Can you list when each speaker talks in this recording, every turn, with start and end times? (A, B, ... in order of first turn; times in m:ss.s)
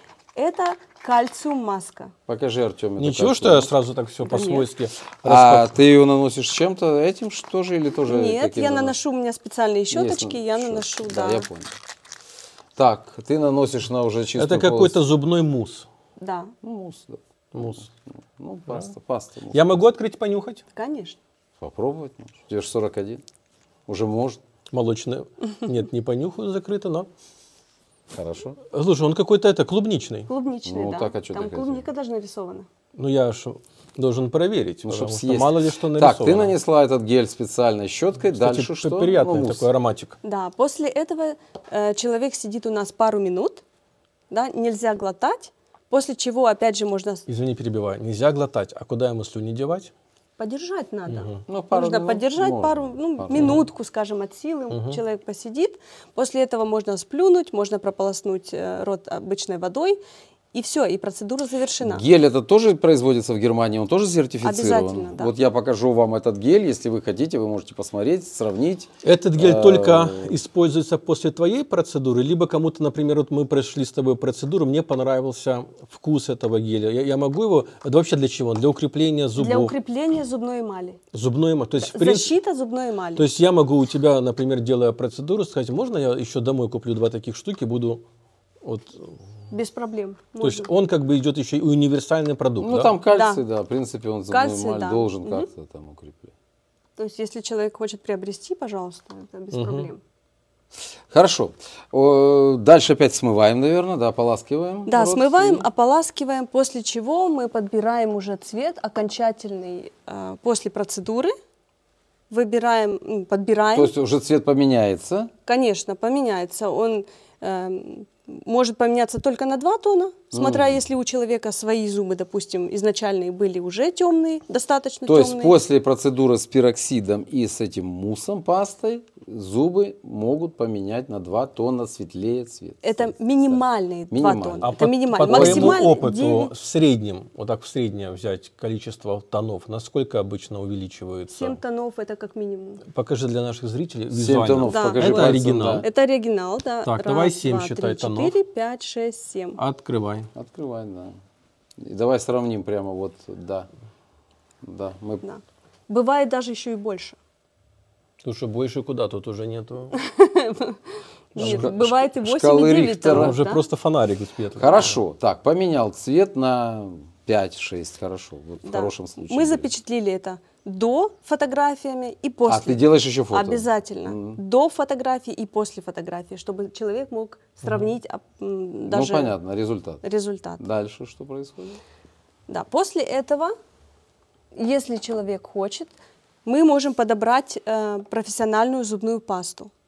0:00.4-0:02.1 A
0:02.3-0:03.7 B
0:03.0-0:05.8 C
0:04.2-0:04.7 A
0:05.2-0:08.9 B
0:08.1-0:11.5 A
0:09.9-0:11.7 B
0:12.8-0:15.0 B
0:14.4-0:15.9 C
0:16.2-0:16.5 A
0:16.6-0:19.8 B
0:17.5-0:17.9 C
0:19.5-0:20.6 C
0:20.7-0:21.2 A
0:21.6-0:23.2 B
0:23.9-0:24.4 B
0:24.7-0:27.1 C
0:28.1-0:28.6 B
0:28.7-0:30.3 C
0:30.3-0:32.7 A
0:30.6-0:31.9 B
0:33.0-0:36.5 C
0:34.8-0:39.7 B
0:38.2-0:40.2 C
0:40.2-0:43.6 A
0:44.3-0:47.2 A
0:47.3-0:49.9 C
0:50.4-1:00.0 A
0:51.1-0:51.4 C
0:51.5-0:53.6 B
0:53.3-0:53.6 C
0:54.7-0:55.0 C
1:00.5-1:02.0 A
1:01.8-1:10.4 B
1:04.4-1:05.3 A
1:09.0-1:19.7 C
1:19.4-1:21.0 A
1:21.1-1:22.4 C
1:21.8-1:23.2 A
1:23.2-1:28.0 C
1:28.6-1:29.2 C
1:29.5-1:30.7 A
1:30.4-1:32.9 C
1:32.6-1:36.3 B
1:33.1-1:33.4 A
1:34.3-1:35.5 A
1:37.0-1:40.0 A
1:39.5-1:39.9 C
1:41.1-1:45.7 B
1:44.9-1:51.3 A
1:52.3-1:53.9 A
1:53.7-1:55.3 B
1:55.5-2:05.6 A
2:00.3-2:00.8 B
2:05.1-2:14.7 B
2:12.8-2:16.5 A
2:14.6-2:21.6 C
2:15.2-2:15.9 B
2:21.3-2:22.8 A
2:22.9-2:25.9 C
2:24.1-2:25.8 B
2:24.6-2:29.6 A
2:26.8-2:28.4 C
2:29.6-2:30.3 C
2:30.4-2:31.2 B
2:31.8-2:33.7 B
2:34.6-2:35.2 B
2:35.2-2:37.2 A
2:38.2-2:39.9 C
2:39.9-2:40.8 A
2:41.4-2:41.7 C
2:41.4-2:43.6 A
2:41.4-2:43.4 B
2:43.1-2:45.0 C
2:44.6-2:49.7 B
2:48.6-2:59.4 A
2:52.5-2:54.4 B
2:58.9-3:00.0 B
3:00.0-3:00.6 A
3:00.6-3:01.8 B
3:02.5-3:03.5 A
3:04.6-3:05.9 A
3:06.4-3:09.7 A